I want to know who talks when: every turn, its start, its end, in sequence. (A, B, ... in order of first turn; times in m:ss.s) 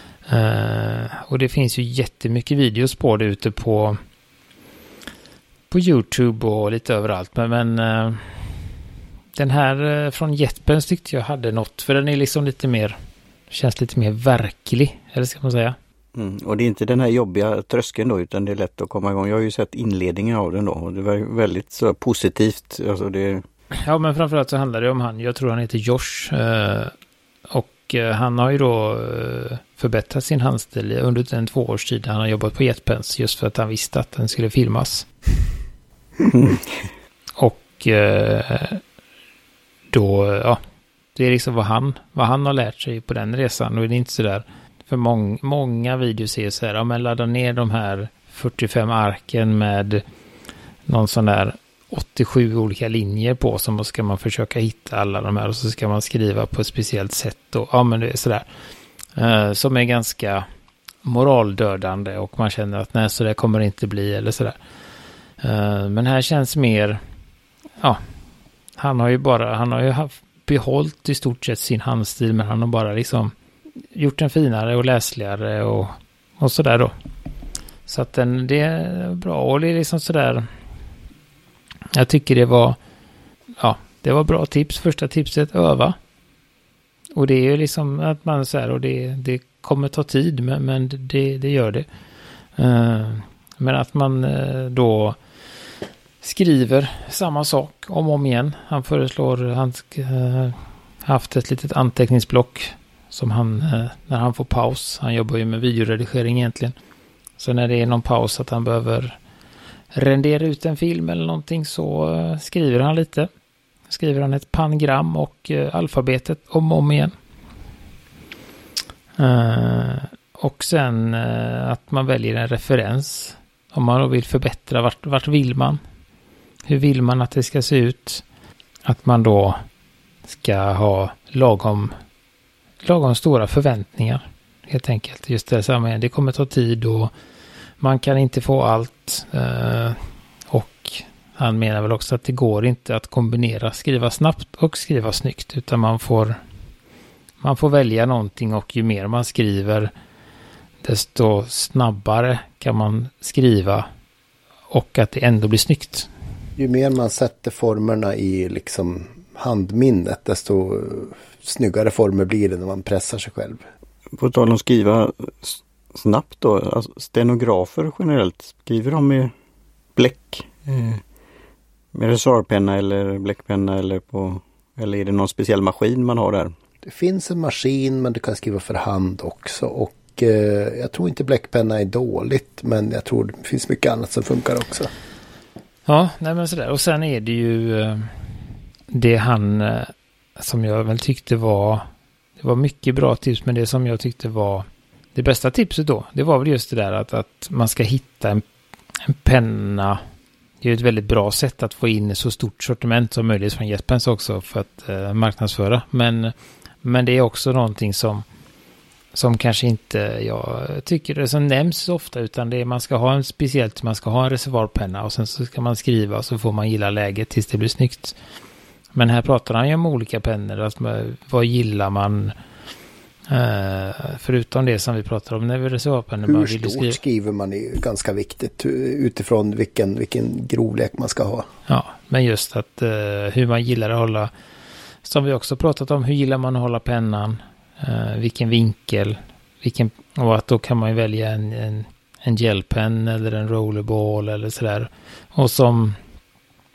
0:00.3-0:04.0 A
0:05.7-0:08.4 A
0:09.3-0:13.0 A
0:13.5-0:15.8 A
0:16.1-0:23.4 B
0:23.8-0:26.9 A
0:27.5-0:35.0 A
0:36.2-0:36.8 B
0:37.4-0:38.8 A
0:39.9-0:40.6 A
0:41.1-0:50.0 A
0:50.9-0:58.4 A
0:59.2-1:00.5 A
1:01.0-1:04.6 A
1:05.4-1:07.0 A
1:08.8-1:13.3 A
1:13.9-1:16.9 A
1:17.9-1:20.5 A
1:21.9-1:22.8 A
1:23.6-1:26.0 A
1:27.1-1:31.8 A
1:32.6-1:35.2 A
1:36.2-1:46.7 A
1:47.4-1:49.2 A
1:49.9-1:53.3 A
1:53.9-1:57.1 A
1:59.2-2:05.8 A
2:06.7-2:08.2 A
2:08.8-2:09.6 A
2:10.3-2:11.9 A
2:12.8-2:17.1 A
2:17.8-2:26.4 A
2:27.4-2:29.9 A
2:30.8-2:33.9 A
2:34.7-2:36.1 A
2:36.6-2:43.6 C
2:44.2-2:49.3 B
2:50.0-2:51.0 B
2:51.9-2:56.5 B
2:56.8-3:04.9 C
3:05.8-3:08.1 A
3:08.9-3:11.8 A
3:12.4-3:18.4 A
3:19.0-3:20.0 A
3:20.6-3:28.2 A
3:29.1-3:38.2 A
3:38.9-3:42.3 A
3:43.3-3:47.0 A
3:46.2-3:51.4 C
3:51.7-3:54.3 A
3:55.0-4:06.0 A